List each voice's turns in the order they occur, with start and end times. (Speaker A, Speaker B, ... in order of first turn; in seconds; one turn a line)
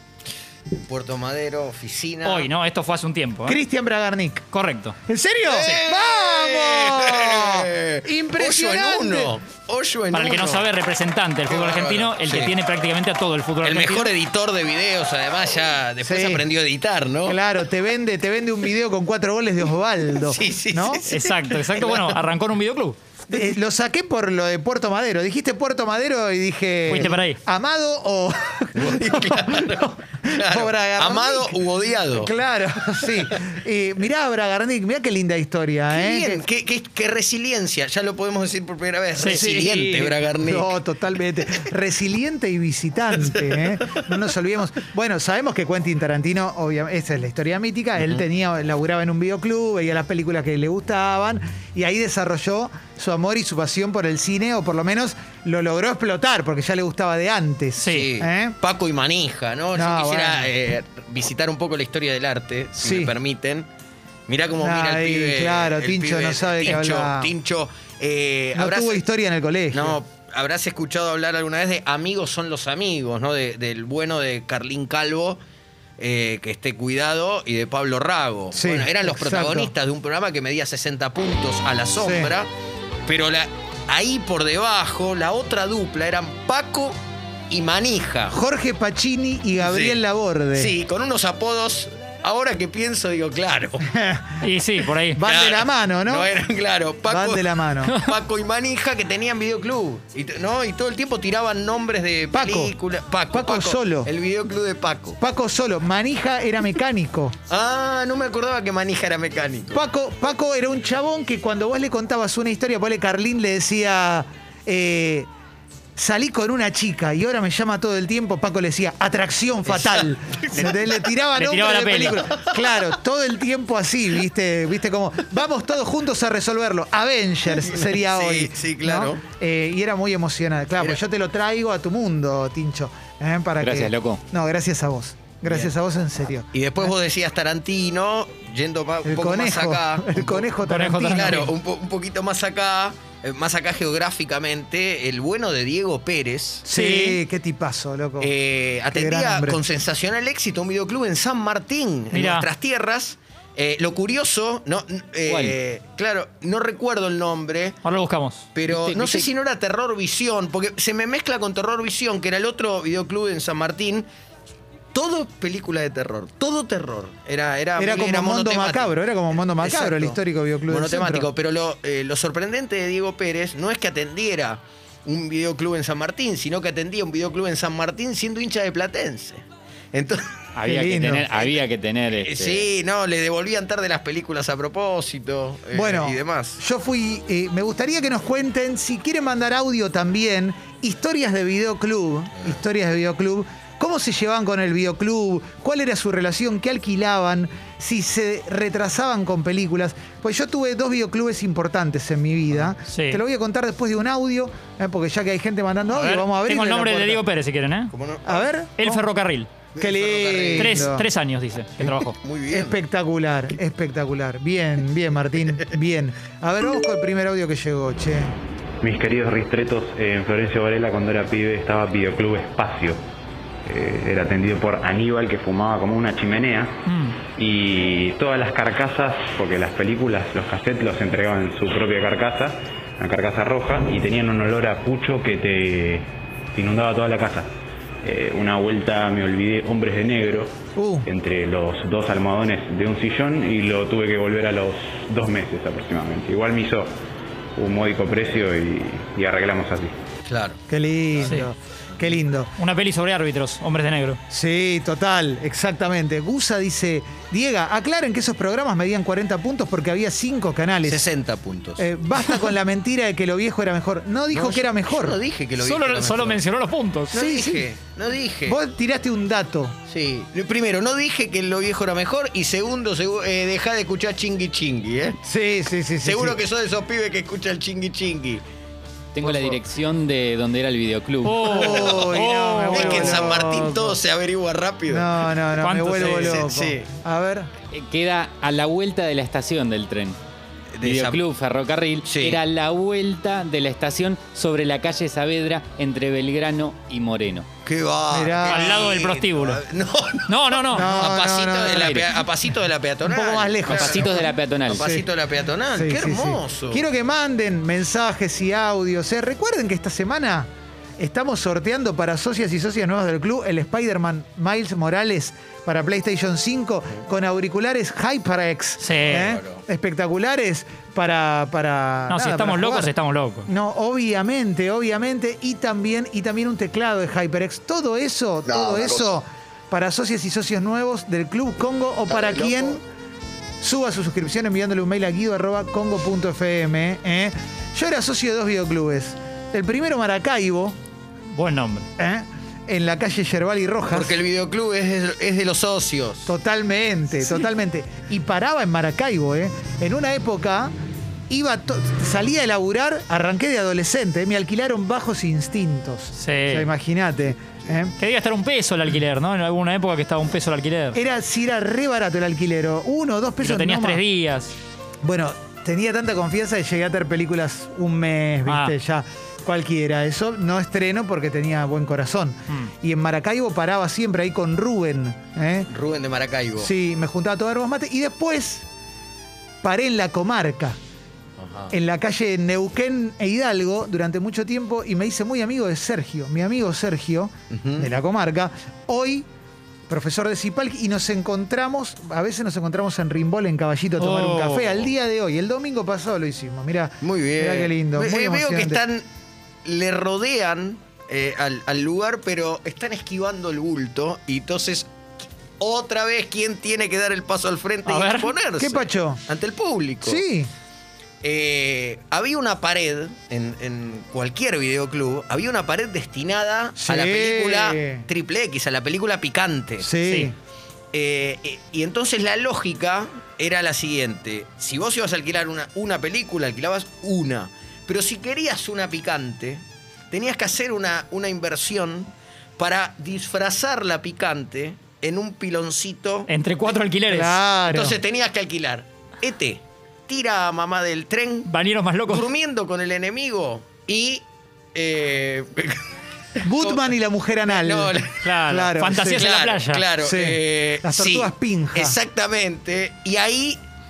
Speaker A: 0.9-2.5
Speaker B: 2.2-3.6
Speaker C: 3.5-4.5
Speaker B: 4.5-5.0
Speaker C: 5.1-9.3
Speaker A: 5.5-10.7
Speaker B: 10.1-14.1
Speaker A: 11.5-12.5
Speaker A: 13.6-17.4
Speaker C: 16.0-16.4
Speaker C: 17.3-21.0
Speaker A: 20.3-22.1
Speaker B: 21.1-23.0
Speaker C: 23.3-29.6
Speaker B: 26.9-27.4
Speaker A: 28.8-32.3
Speaker C: 30.3-31.6
Speaker C: 32.2-36.4
Speaker A: 35.9-40.7
Speaker C: 39.2-58.5
Speaker A: 43.2-44.0
Speaker B: 57.8-58.1
Speaker A: 57.9-63.7
Speaker C: 59.8-60.5
Speaker C: 62.8-63.1
Speaker A: 64.3-69.0
Speaker C: 64.6-67.3
Speaker C: 68.5-70.0
Speaker A: 69.7-75.4
Speaker A: 76.0-82.5
Speaker C: 78.5-79.7
Speaker C: 82.0-82.3
Speaker A: 83.1-87.0
Speaker A: 87.5-88.4
Speaker C: 88.3-90.7
Speaker A: 89.6-90.0
Speaker A: 90.5-93.8
Speaker C: 93.9-94.4
Speaker B: 94.4-95.2
Speaker C: 95.2-96.3
Speaker A: 95.2-105.2
Speaker C: 97.1-98.0
Speaker C: 102.3-102.7
Speaker C: 103.3-104.1
Speaker C: 105.2-107.3
Speaker A: 107.5-109.8
Speaker C: 109.7-115.3
Speaker C: 116.0-136.9
Speaker A: 119.7-120.7
Speaker B: 121.3-122.2
Speaker A: 127.6-129.2
Speaker D: 133.6-134.2
Speaker A: 136.5-146.7
Speaker C: 139.1-141.5
Speaker B: 140.6-141.5
Speaker C: 146.7-148.3
Speaker B: 146.7-147.2
Speaker A: 148.2-157.8
Speaker C: 148.9-149.6
Speaker B: 152.1-152.5
Speaker D: 155.3-155.6
Speaker B: 157.8-158.5
Speaker A: 158.6-164.1
Speaker D: 158.7-159.3
Speaker A: 164.9-168.9
Speaker C: 167.8-171.3
Speaker A: 169.6-170.2
Speaker A: 170.7-180.3
Speaker D: 180.6-182.7
Speaker C: 180.7-181.3
Speaker A: 181.3-181.6
Speaker A: 182.2-186.6
Speaker C: 185.7-207.2
Speaker B: 202.9-203.2
Speaker B: 205.9-207.9
Speaker A: 207.9-208.5
Speaker C: 208.3-209.0
Speaker B: 208.8-209.5
Speaker A: 209.8-210.9
Speaker C: 209.8-211.1
Speaker B: 210.6-212.2
Speaker A: 212.2-212.8
Speaker C: 212.5-218.3
Speaker E: 218.8-223.0
Speaker E: 223.7-226.8
Speaker B: 226.9-227.2
Speaker E: 227.3-237.5
Speaker E: 238.0-246.9
Speaker C: 240.8-241.1
Speaker E: 247.6-250.0
Speaker A: 250.3-250.6
Speaker C: 250.7-252.5
Speaker B: 252.6-254.2
Speaker C: 254.3-261.0
Speaker A: 260.9-262.5
Speaker C: 261.8-265.2
Speaker A: 264.3-266.4
Speaker B: 265.6-267.2
Speaker A: 267.1-268.6
Speaker C: 267.1-267.6
Speaker C: 268.5-269.8
Speaker A: 269.9-275.2
Speaker C: 275.2-276.4
Speaker A: 276.0-278.4
Speaker D: 279.1-281.4
Speaker C: 279.2-279.5
Speaker B: 281.2-283.2
Speaker C: 281.4-284.0
Speaker A: 281.5-282.1
Speaker A: 282.7-285.3
Speaker C: 284.9-287.5
Speaker B: 285.6-286.4
Speaker A: 286.0-286.9
Speaker D: 287.7-290.2
Speaker A: 290.8-291.2
Speaker D: 290.8-297.5
Speaker A: 292.0-292.4
Speaker A: 297.6-306.8
Speaker C: 298.1-298.8
Speaker B: 298.5-299.6
Speaker B: 300.3-301.1
Speaker C: 300.7-301.9
Speaker D: 301.7-302.1
Speaker C: 303.1-305.0
Speaker D: 303.7-304.9
Speaker C: 305.7-322.9
Speaker B: 318.8-319.3
Speaker A: 319.1-319.6
Speaker B: 322.1-323.5
Speaker C: 323.5-332.8
Speaker A: 328.5-329.1
Speaker A: 332.1-332.7
Speaker C: 333.6-340.8
Speaker B: 341.3-341.9
Speaker C: 342.0-344.1
Speaker A: 343.9-346.3
Speaker C: 346.3-350.7
Speaker C: 351.3-357.9
Speaker B: 356.2-356.7
Speaker B: 358.0-361.0
Speaker C: 360.9-364.0
Speaker B: 363.4-364.5
Speaker C: 365.0-375.7
Speaker B: 368.5-368.7
Speaker A: 375.7-376.7
Speaker C: 376.6-378.6
Speaker C: 379.6-380.8
Speaker A: 381.4-381.7
Speaker C: 381.7-389.3
Speaker A: 387.5-387.9
Speaker C: 389.9-398.8
Speaker B: 394.0-394.8
Speaker A: 397.0-399.0
Speaker A: 399.6-404.9
Speaker A: 405.6-410.2
Speaker B: 407.9-408.3
Speaker C: 408.6-409.2
Speaker C: 410.0-410.5
Speaker A: 411.2-419.9
Speaker C: 416.8-418.1
Speaker C: 419.8-420.3
Speaker A: 420.9-436.3
Speaker B: 436.3-437.4
Speaker C: 437.1-438.0
Speaker A: 437.7-441.5
Speaker B: 441.5-442.3
Speaker A: 442.1-444.2
Speaker A: 444.8-445.8
Speaker C: 446.4-447.9
Speaker A: 446.6-446.9
Speaker A: 447.5-448.2
Speaker B: 448.2-449.8
Speaker C: 448.5-449.2
Speaker A: 449.1-453.6
Speaker C: 450.0-452.0